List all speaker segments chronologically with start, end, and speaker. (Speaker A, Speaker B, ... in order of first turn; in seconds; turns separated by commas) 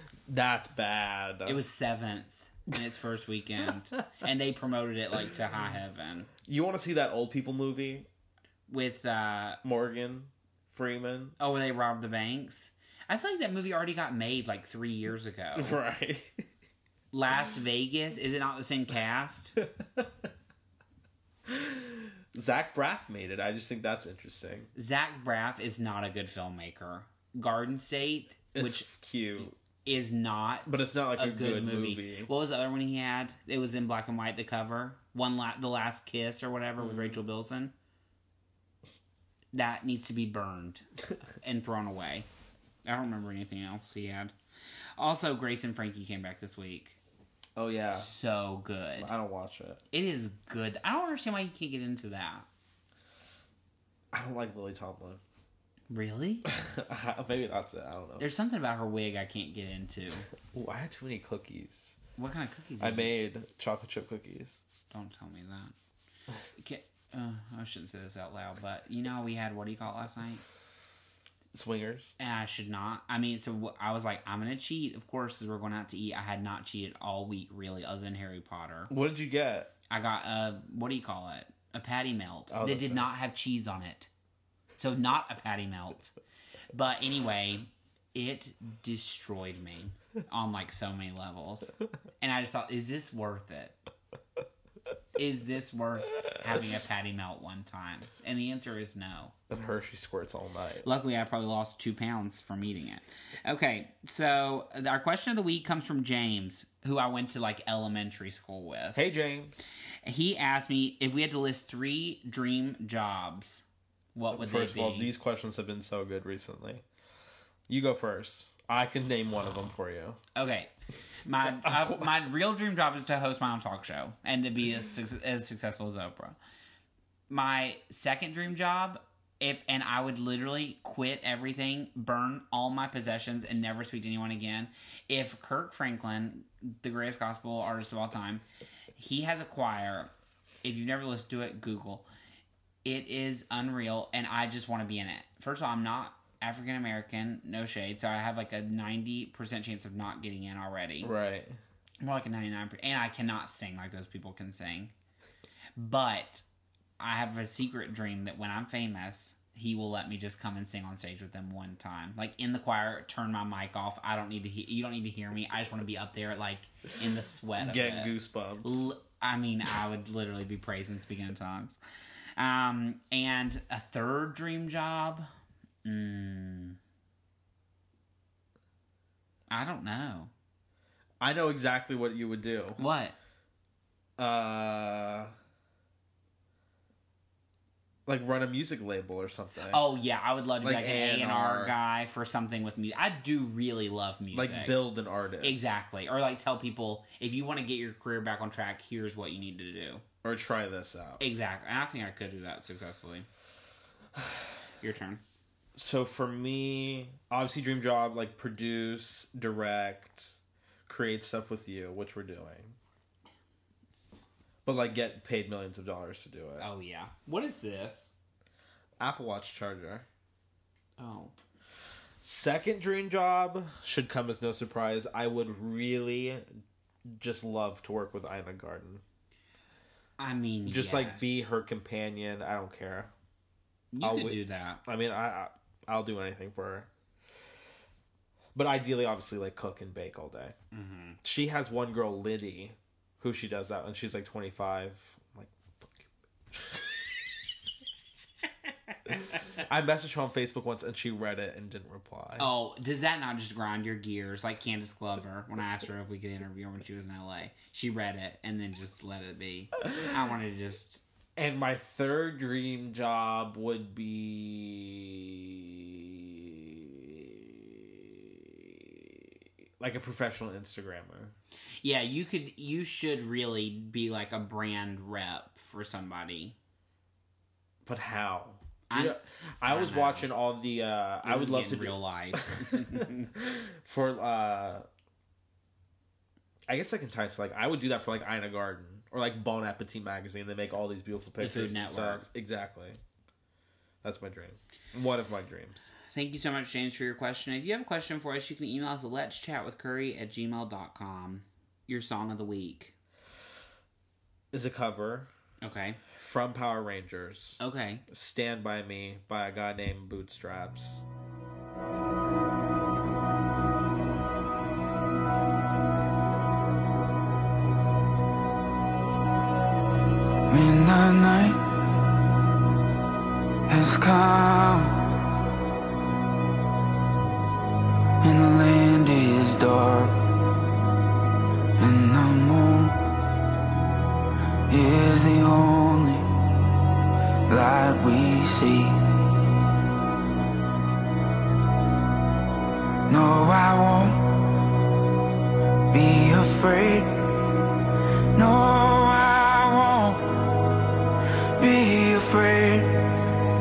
Speaker A: 0.3-1.6, Speaker B: 1.4-6.3, Speaker A: 6.5-8.1, Speaker B: 8.7-9.6, Speaker A: 9.6-11.4, Speaker B: 11.4-15.8, Speaker A: 15.5-16.4, Speaker B: 17.1-19.6, Speaker A: 19.8-20.1, Speaker A: 21.5-24.7, Speaker B: 24.8-37.7, Speaker A: 28.5-29.5, Speaker A: 30.7-32.3, Speaker A: 36.8-37.2, Speaker B: 39.5-40.9, Speaker B: 41.4-42.3, Speaker B: 42.9-44.3, Speaker B: 45.0-47.0, Speaker A: 47.6-48.1, Speaker B: 47.9-49.1, Speaker A: 49.0-49.8, Speaker B: 49.9-52.5, Speaker A: 54.1-55.2, Speaker B: 55.9-56.5, Speaker A: 56.5-58.3, Speaker B: 58.2-60.3, Speaker A: 60.5-62.0, Speaker B: 62.2-63.1, Speaker A: 62.8-64.6, Speaker B: 64.9-65.7, Speaker B: 66.6-70.4, Speaker A: 71.5-72.1, Speaker B: 72.2-78.9, Speaker A: 78.9-79.7, Speaker B: 79.9-84.1, Speaker A: 82.5-83.1, Speaker B: 84.8-86.1, Speaker B: 86.7-93.8, Speaker B: 95.2-99.3, Speaker A: 99.5-100.9, Speaker B: 100.8-109.0, Speaker A: 108.9-109.6, Speaker B: 110.0-115.1, Speaker A: 114.3-116.8, Speaker A: 117.7-120.2, Speaker B: 120.3-120.7, Speaker B: 121.2-126.4, Speaker A: 121.6-122.0, Speaker B: 127.3-138.4, Speaker B: 138.9-140.1, Speaker B: 140.6-142.1, Speaker B: 142.8-151.1, Speaker A: 151.0-151.6, Speaker B: 152.0-154.9, Speaker B: 155.8-156.4, Speaker B: 157.0-171.8, Speaker A: 167.6-168.9, Speaker B: 172.4-175.3, Speaker B: 175.8-176.8, Speaker B: 179.5-180.3, Speaker A: 181.2-182.8, Speaker B: 182.8-183.2, Speaker A: 184.2-185.3, Speaker A: 188.1-189.8, Speaker B: 189.7-194.8, Speaker A: 190.6-191.8, Speaker A: 194.3-195.8, Speaker B: 195.4-200.0, Speaker A: 200.2-201.2, Speaker B: 201.2-203.3, Speaker B: 204.8-205.2, Speaker A: 205.8-212.8, Speaker A: 214.6-216.7, Speaker B: 216.6-218.1, Speaker A: 219.0-220.1, Speaker B: 221.0-221.3, Speaker A: 222.2-226.5, Speaker A: 227.1-229.0, Speaker B: 230.2-231.5, Speaker A: 230.7-233.1, Speaker B: 233.9-234.8, Speaker A: 234.0-236.9, Speaker A: 238.6-240.5, Speaker B: 240.7-241.2, Speaker A: 241.2-246.9, Speaker A: 249.5-252.5, Speaker B: 252.4-261.0, Speaker A: 261.4-271.3, Speaker B: 271.8-276.6, Speaker A: 277.9-284.9, Speaker B: 278.9-280.3, Speaker B: 281.2-283.3, Speaker A: 286.7-293.0, Speaker B: 291.4-292.3, Speaker A: 294.0-295.9, Speaker B: 296.1-302.9, Speaker A: 304.5-305.3, Speaker B: 305.6-306.0, Speaker A: 306.1-311.1, Speaker B: 307.6-308.1, Speaker C: 320.5-321.6, Speaker C: 323.7-325.1, Speaker C: 328.2-330.2, Speaker C: 331.8-333.0, Speaker C: 334.7-336.3, Speaker C: 337.5-339.1, Speaker C: 343.1-344.4, Speaker C: 345.9-347.5, Speaker C: 348.3-350.2, Speaker C: 351.6-353.2